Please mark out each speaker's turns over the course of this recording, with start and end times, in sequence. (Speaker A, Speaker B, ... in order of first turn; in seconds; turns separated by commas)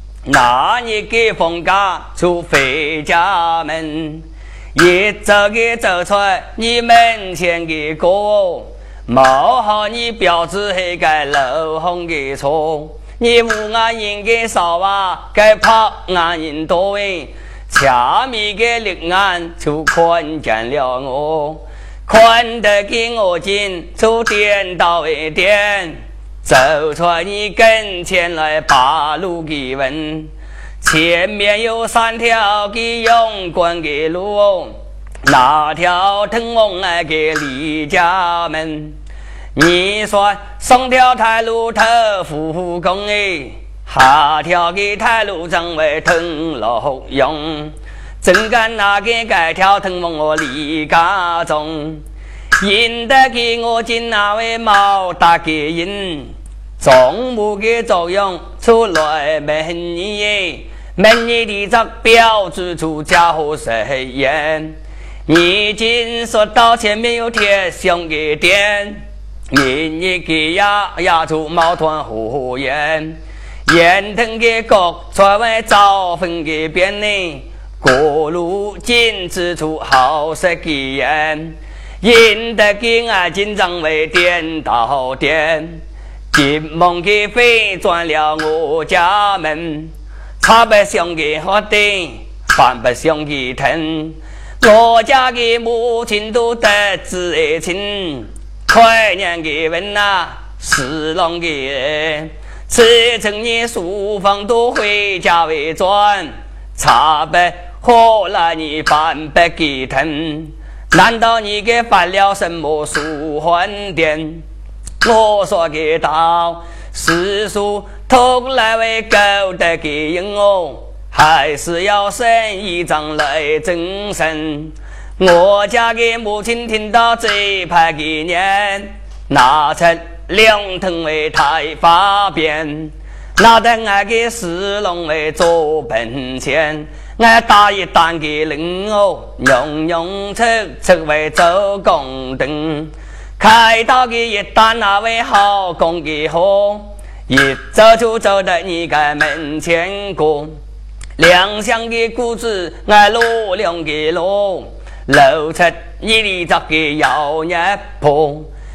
Speaker A: 0.3-30.3, Speaker A: 30.8-39.0, Speaker A: 39.5-52.0, Speaker A: 52.6-114.5, Speaker A: 115.0-150.6, Speaker A: 151.2-158.5